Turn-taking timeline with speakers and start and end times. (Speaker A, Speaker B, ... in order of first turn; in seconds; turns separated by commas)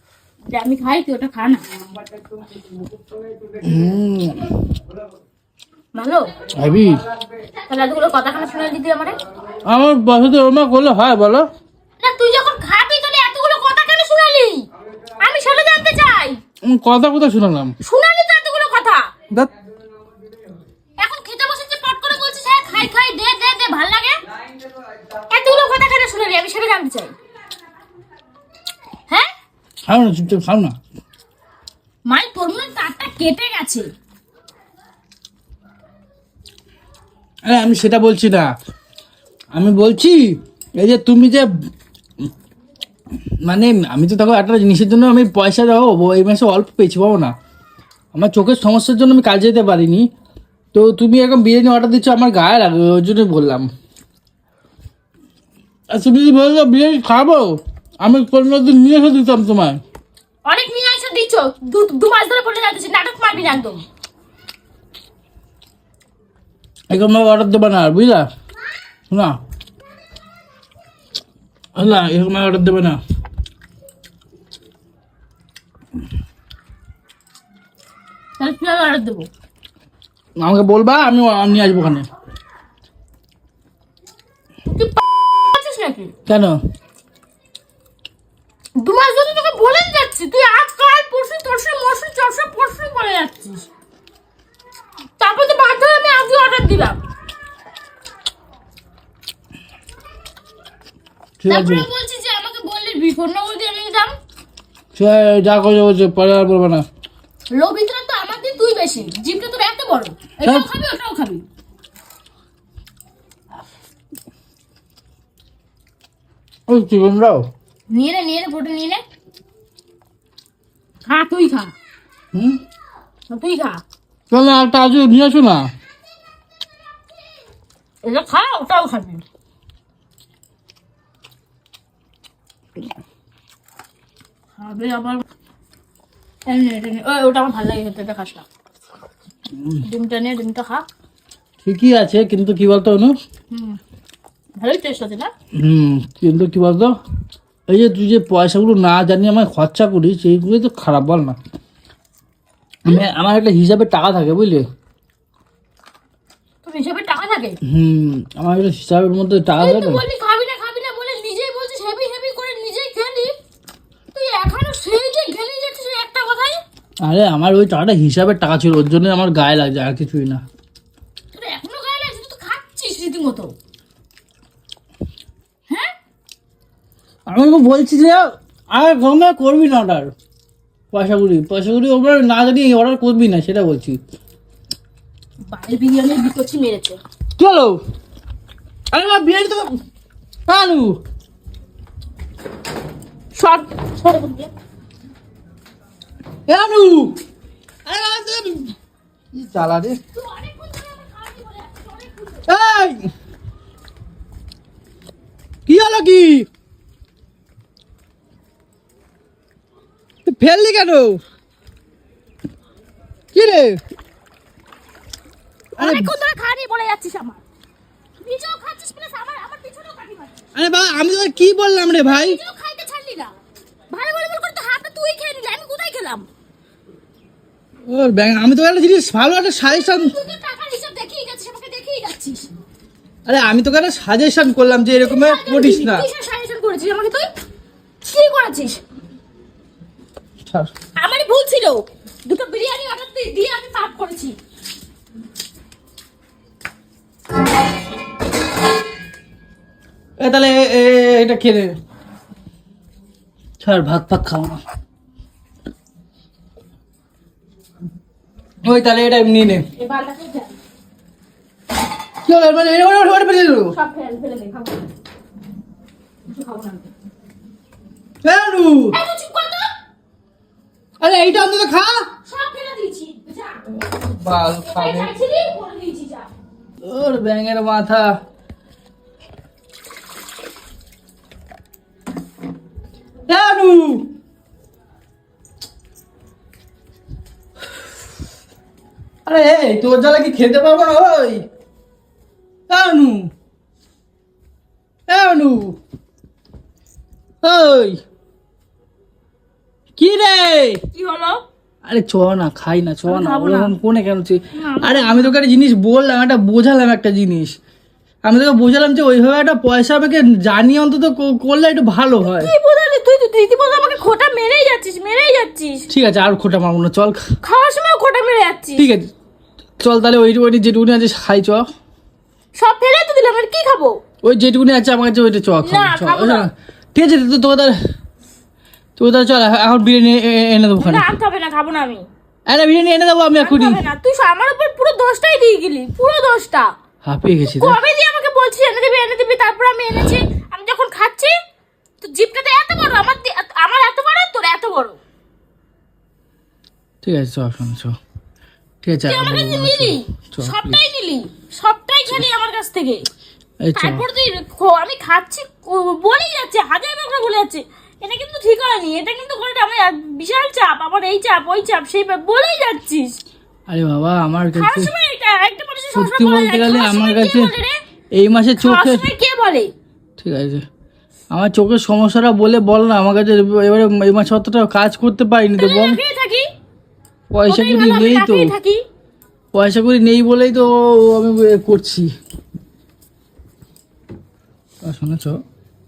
Speaker A: 0.5-1.6, Speaker B: 3.6-4.6, Speaker A: 6.0-6.3, Speaker B: 6.5-7.0, Speaker A: 7.7-9.2, Speaker B: 9.7-11.5, Speaker A: 12.0-14.7, Speaker A: 15.2-16.4, Speaker B: 16.6-17.7, Speaker A: 17.8-19.1, Speaker A: 21.0-24.2, Speaker A: 25.3-27.2, Speaker B: 29.9-30.8, Speaker A: 32.1-33.9, Speaker B: 37.5-38.5, Speaker B: 39.5-41.5, Speaker B: 43.5-47.3, Speaker B: 48.1-50.1, Speaker B: 50.7-53.7, Speaker B: 55.9-59.8, Speaker A: 60.5-63.8, Speaker B: 66.9-68.3, Speaker B: 69.1-69.4, Speaker B: 71.8-73.0, Speaker A: 78.4-79.3, Speaker B: 80.4-82.1, Speaker A: 84.7-86.1, Speaker B: 86.3-86.6, Speaker A: 88.8-93.7, Speaker A: 95.2-97.0, Speaker B: 101.4-101.9, Speaker A: 101.5-104.1, Speaker B: 105.0-106.8, Speaker A: 107.5-111.4, Speaker B: 110.4-110.7, Speaker B: 116.7-117.5, Speaker A: 117.9-119.0, Speaker A: 121.1-121.7, Speaker B: 122.3-122.6, Speaker A: 123.3-123.8, Speaker B: 124.3-125.7, Speaker A: 128.0-129.2, Speaker A: 134.6-135.2, Speaker A: 136.5-138.5, Speaker B: 139.5-139.8, Speaker A: 139.8-140.9, Speaker B: 141.6-143.1, Speaker A: 143.5-143.8, Speaker A: 144.6-145.3, Speaker B: 145.5-146.9, Speaker B: 147.7-151.4, Speaker B: 152.9-154.7, Speaker A: 156.6-157.6, Speaker B: 157.7-160.0, Speaker A: 159.6-163.4, Speaker A: 164.1-166.6, Speaker B: 167.0-170.4, Speaker A: 171.3-173.5, Speaker A: 175.7-175.9, Speaker B: 177.3-180.1, Speaker B: 180.9-184.0, Speaker A: 185.5-187.0, Speaker B: 187.4-187.8, Speaker B: 188.9-189.7, Speaker B: 190.5-191.0, Speaker A: 193.3-194.5, Speaker B: 196.5-197.2, Speaker B: 197.9-198.7, Speaker B: 199.3-200.0, Speaker A: 200.1-202.5, Speaker B: 202.5-203.1, Speaker B: 205.7-206.5, Speaker B: 210.2-211.2, Speaker B: 213.3-213.8, Speaker A: 215.8-217.4, Speaker B: 215.8-216.2, Speaker A: 218.2-220.5, Speaker B: 220.6-222.4, Speaker A: 222.0-223.3, Speaker A: 223.9-226.3, Speaker B: 227.9-230.2, Speaker A: 229.6-232.5, Speaker B: 233.3-236.1, Speaker A: 235.0-237.3, Speaker A: 238.0-238.8, Speaker B: 240.4-240.7, Speaker A: 241.0-244.4, Speaker B: 250.2-251.7, Speaker B: 253.6-254.6, Speaker B: 258.6-259.6, Speaker A: 259.7-260.6, Speaker B: 262.2-263.8, Speaker A: 263.7-264.9, Speaker A: 266.3-266.9, Speaker B: 268.2-269.0, Speaker A: 268.9-269.7, Speaker B: 271.0-272.1, Speaker A: 272.2-276.3, Speaker B: 274.1-275.1, Speaker B: 276.8-278.1, Speaker B: 283.3-284.1, Speaker B: 289.3-291.4, Speaker B: 292.7-293.3, Speaker B: 295.1-295.8, Speaker B: 297.4-298.0, Speaker B: 300.0-300.8, Speaker A: 300.9-301.4, Speaker B: 301.9-307.5, Speaker A: 303.1-303.8, Speaker A: 304.6-305.3, Speaker B: 308.2-312.5, Speaker A: 312.2-315.9, Speaker B: 315.9-317.2, Speaker A: 317.4-318.9, Speaker B: 318.8-319.1, Speaker B: 319.8-321.6, Speaker A: 322.6-324.0, Speaker B: 324.2-327.8, Speaker A: 325.6-326.5, Speaker B: 329.0-331.1, Speaker A: 330.8-332.1, Speaker B: 332.5-333.8, Speaker A: 333.4-336.7, Speaker B: 337.0-337.8, Speaker A: 337.4-341.4, Speaker A: 342.0-345.0, Speaker B: 347.0-347.9, Speaker B: 348.8-350.9, Speaker A: 349.1-353.1, Speaker B: 353.6-354.1, Speaker A: 353.8-363.2, Speaker B: 363.7-364.9, Speaker A: 364.5-367.8, Speaker B: 365.9-367.5, Speaker B: 368.2-369.1, Speaker A: 368.6-369.7, Speaker B: 370.2-370.6, Speaker B: 371.3-376.0, Speaker A: 375.6-376.5, Speaker B: 377.3-378.5, Speaker A: 377.5-378.8, Speaker B: 379.5-382.1, Speaker B: 384.8-385.4